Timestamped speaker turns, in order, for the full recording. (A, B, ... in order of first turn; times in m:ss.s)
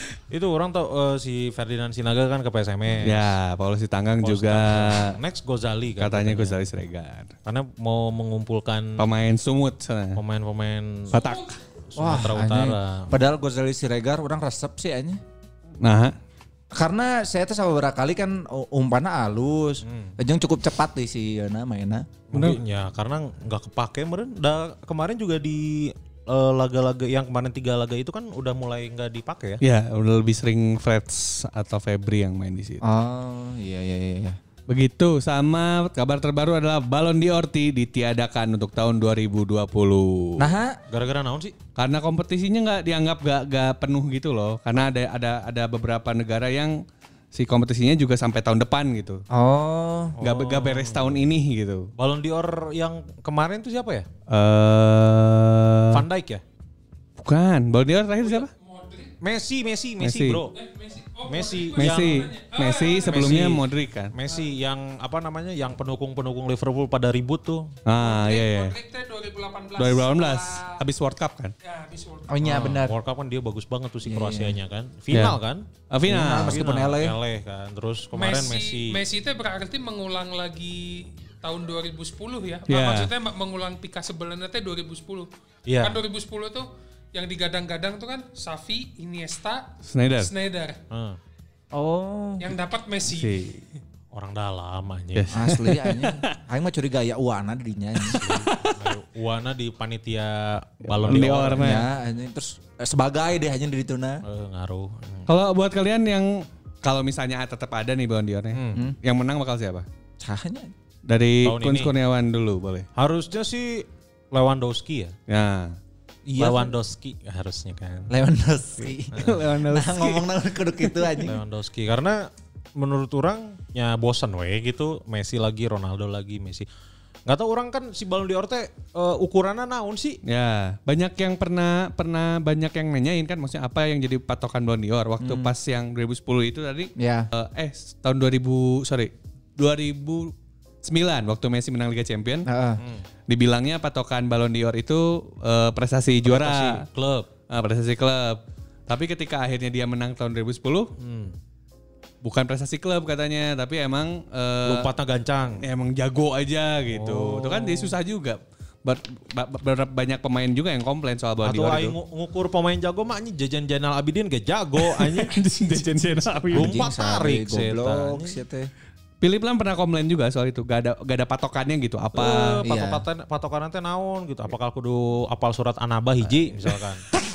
0:00.3-0:03.4 A
0:03.0-0:05.2 B
0:04.2-0:06.6 A
0:06.0-0:07.3 B
0:07.5-0:09.0 A
0:09.0-0:10.2 B
0:10.2-0:11.2 A
0:11.1-0:11.6 B
0:11.9-0:13.1 A
0:12.0-0:15.2 C
0:15.8-0:16.2 B
0:16.7-0:22.1 C
0:19.8-0:20.2 A
0:22.3-0:29.6 A
0:22.3-0:22.6 B
0:29.6-0:32.8 B
0:32.8-0:34.4 C
0:34.7-0:40.5 B
0:40.4-0:40.8 C
0:40.9-0:41.6 A
0:41.8-0:46.8 B
0:47.3-0:49.2 B
0:49.3-0:50.2 C
0:50.2-0:51.3 A
0:50.2-0:51.9 B
0:52.0-0:54.1 A
0:54.3-0:56.0 B
0:55.9-0:56.4 A
0:57.2-0:58.5 B
0:58.2-0:59.1 D
0:59.2-1:00.6 A
1:00.0-1:00.4 B
1:00.5-1:03.6 D
1:01.3-1:02.3 A
1:01.8-1:04.1 B
1:03.1-1:07.8 A
1:07.8-1:08.8 B
1:08.0-1:10.8 D
1:09.8-1:11.5 B
1:11.6-1:12.4 D
1:12.3-1:13.0 C
1:12.4-1:15.7 A
1:14.0-1:14.6 C
1:15.1-1:15.4 B
1:15.9-1:16.6 B
1:16.1-1:17.2 C
1:16.4-1:19.0 A
1:18.1-1:25.3 D
1:22.7-1:23.1 B
1:25.7-1:26.0 A
1:25.8-1:30.8 D
1:29.9-1:30.3 B
1:30.9-1:31.2 A
1:31.7-1:32.6 C
1:32.4-1:33.4 D
1:33.1-1:33.6 B
1:34.1-1:35.4 A
1:35.2-1:36.3 B
1:35.3-1:38.2 C
1:38.1-1:38.9 B
1:38.1-1:41.8 A
1:40.9-1:41.9 B
1:41.2-1:44.2 C
1:44.2-1:45.3 A
1:45.3-1:49.9 B
1:48.5-1:48.8 A
1:50.2-1:50.7 C
1:51.1-1:52.9 B
1:51.4-1:51.9 A
1:53.0-1:55.2 A
1:55.3-1:55.8 B
1:56.3-1:56.7 C
1:56.4-1:58.1 A
1:58.1-2:01.4 C
1:58.8-2:01.3 B
1:59.1-1:59.4 A
2:01.3-2:06.7 A
2:07.3-2:10.2 A
2:10.2-2:22.5 B
2:15.2-2:15.5 C
2:17.0-2:17.3 C
2:22.5-2:22.8 C
2:23.3-2:26.8 B
2:26.2-2:27.3 A
2:27.5-2:30.9 B
2:31.0-2:31.4 A
2:32.2-2:34.9 B
2:34.7-2:35.6 A
2:35.6-2:42.0 B
2:36.9-2:38.0 A
2:41.4-2:45.4 A
2:44.8-2:46.8 B
2:46.5-2:48.7 C
2:46.5-2:48.4 A
2:49.2-2:52.6 B
2:52.1-2:57.0 A
2:52.6-2:53.0 C